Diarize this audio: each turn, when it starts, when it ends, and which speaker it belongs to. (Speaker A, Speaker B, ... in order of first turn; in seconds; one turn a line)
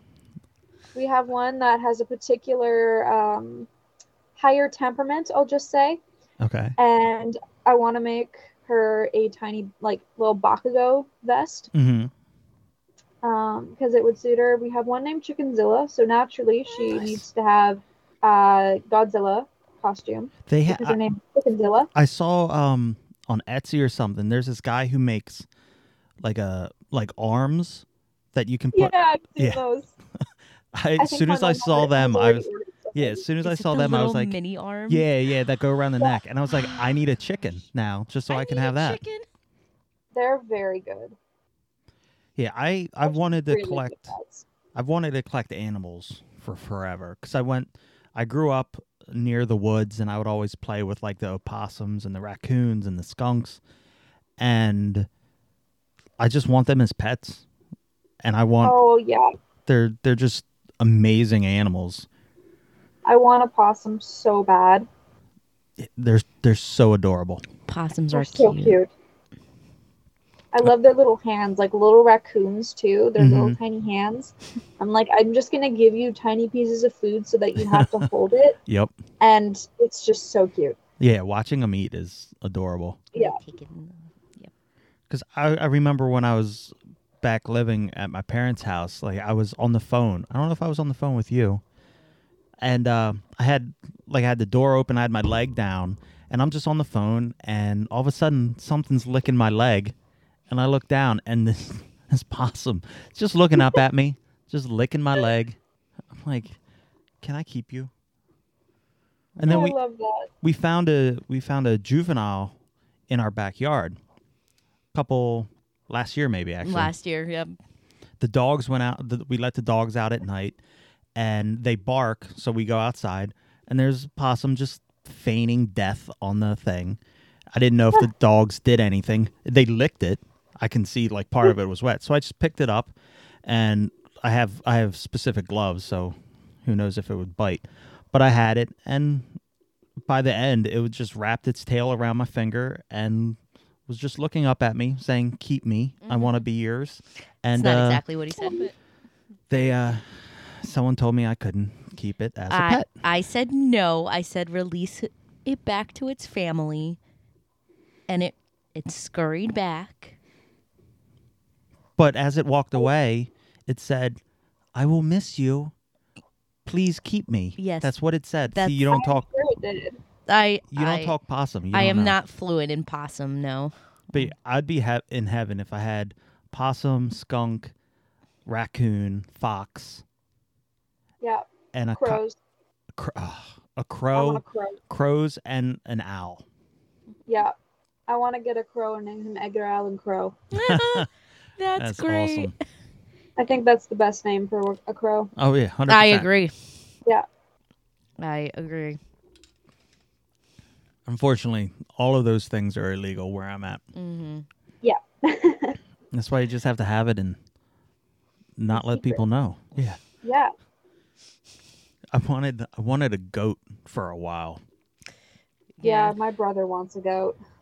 Speaker A: 0.9-3.7
Speaker A: 4.3-6.0
Speaker B: 6.4-6.8
Speaker A: 6.8-11.7
Speaker B: 11.7-12.1
Speaker A: 13.2-21.9
Speaker B: 16.9-17.2
Speaker B: 20.5-21.0
Speaker B: 21.9-25.5
Speaker B: 26.2-29.6
Speaker A: 28.7-29.9
Speaker B: 30.7-34.3
Speaker A: 31.0-33.2
Speaker C: 33.4-35.1
Speaker B: 34.9-39.0
Speaker C: 36.5-37.0
Speaker C: 38.3-39.2
Speaker A: 40.1-41.1
Speaker B: 42.4-44.1
Speaker A: 43.0-44.4
Speaker B: 44.7-53.6
Speaker B: 54.4-55.1
Speaker B: 56.2-57.4
Speaker B: 58.2-58.8
Speaker A: 58.6-59.3
Speaker B: 59.6-62.1
Speaker A: 63.0-64.9
Speaker B: 65.8-67.4
Speaker C: 67.7-68.8
Speaker A: 68.1-68.9
Speaker A: 70.5-78.6
Speaker B: 73.2-73.6
Speaker B: 77.6-78.0
Speaker B: 78.7-78.9
Speaker A: 79.2-80.8
Speaker B: 81.0-83.0
Speaker A: 83.1-83.4
Speaker C: 83.1-84.5
Speaker B: 85.1-91.6
Speaker B: 92.6-99.9
Speaker B: 100.5-105.6
Speaker B: 106.1-106.6
Speaker B: 107.2-107.9
Speaker B: 109.3-109.8
Speaker A: 109.4-110.3
Speaker B: 110.4-112.5
Speaker B: 113.1-114.0
Speaker B: 114.9-116.9
Speaker C: 116.6-117.6
Speaker B: 118.2-120.6
Speaker B: 121.2-127.0
Speaker B: 127.5-132.9
Speaker B: 133.4-139.3
Speaker B: 140.1-148.0
Speaker C: 146.1-146.4
Speaker C: 147.5-148.7
Speaker B: 149.5-152.9
Speaker C: 152.5-157.0
Speaker C: 158.1-160.2
Speaker B: 162.0-164.2
Speaker B: 164.7-165.7
Speaker B: 166.7-169.2
Speaker C: 167.6-167.9
Speaker C: 168.5-168.9
Speaker A: 168.9-170.0
Speaker C: 170.3-171.1
Speaker B: 170.7-172.2
Speaker C: 171.7-174.3
Speaker B: 174.1-177.7
Speaker B: 178.4-180.0
Speaker A: 181.2-182.4
Speaker B: 181.7-182.2
Speaker B: 182.9-186.4
Speaker A: 184.1-184.8
Speaker A: 187.3-187.5
Speaker A: 188.1-190.4
Speaker C: 190.5-192.5
Speaker B: 190.5-191.1
Speaker B: 191.8-192.5
Speaker A: 193.4-195.3
Speaker B: 195.3-196.3
Speaker C: 195.9-196.7
Speaker C: 198.2-199.0
Speaker B: 201.1-203.8
Speaker C: 203.9-204.4
Speaker A: 204.8-205.8
Speaker B: 206.1-207.4
Speaker B: 208.6-210.0
Speaker A: 208.7-209.2
Speaker A: 210.2-210.5
Speaker B: 212.1-214.6
Speaker C: 215.8-216.2
Speaker A: 215.8-217.4